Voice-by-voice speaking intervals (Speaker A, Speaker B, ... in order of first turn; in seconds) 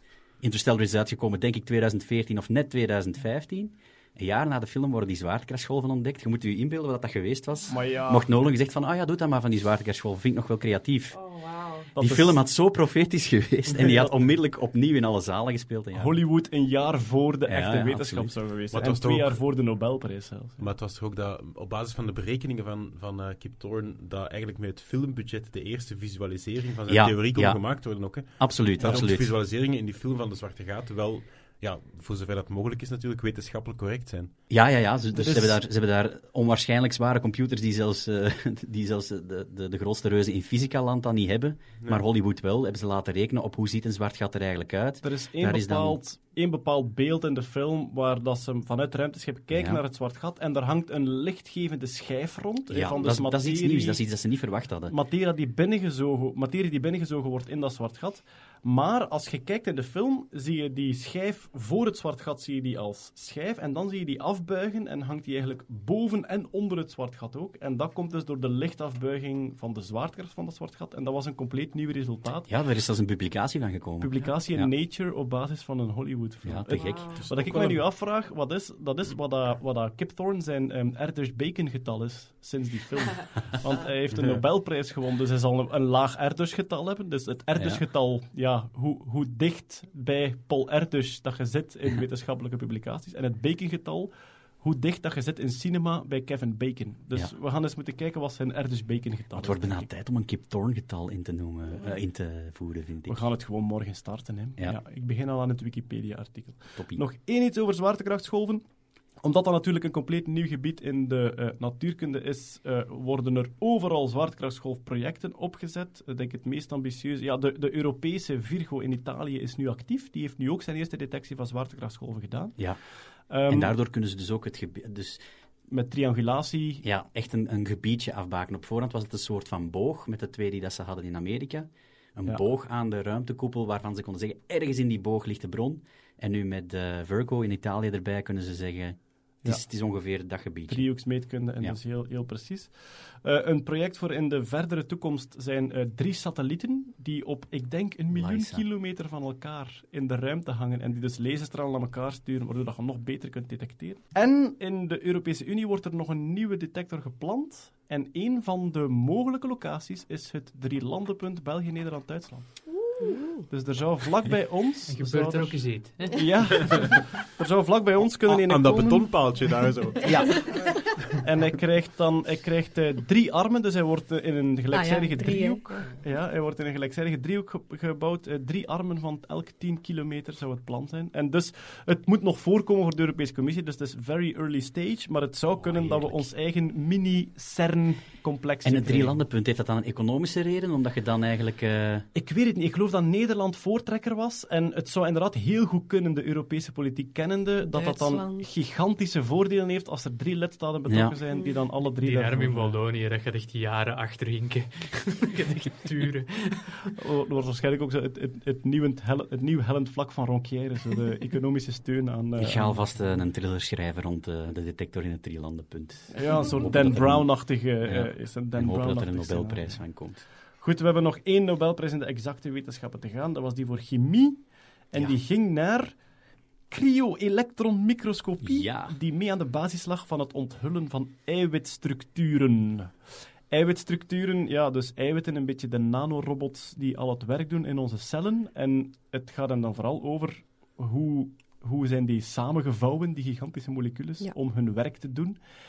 Speaker A: 0.4-11.2, 12.0-16.2, 17.5-18.3, 26.9-27.6, 28.3-29.3, 34.5-46.0, 49.5-49.8, 52.7-54.9, 72.5-74.7, 76.4-77.5, 87.5-87.8, 99.3-103.2, 106.8-107.0, 123.5-125.2, 126.8-140.8, 148.1-148.6, 185.5-186.3, 188.6-192.1, 200.9-201.1, 212.4-220.2, 228.4-228.9
Speaker B: 7.7-8.2, 11.9-12.4, 13.8-14.1, 15.9-20.6, 35.1-35.6, 45.0-54.0, 54.9-72.5, 74.0-99.8, 103.1-108.6, 109.2-122.6, 123.3-123.7, 125.7-126.8, 140.7-162.5, 163.5-169.1, 170.0-189.2, 192.1-202.8, 207.0-212.8, 216.1-219.8, 220.6-225.9, 226.7-232.9, 233.5-245.4
Speaker C: 11.1-11.9, 76.7-77.2, 162.8-163.4, 174.7-175.9, 197.7-198.5
Speaker D: 18.7-19.4, 20.6-34.3, 77.4-77.7, 84.1-84.4, 168.2-170.5
Speaker E: 164.9-167.0, 202.0-206.9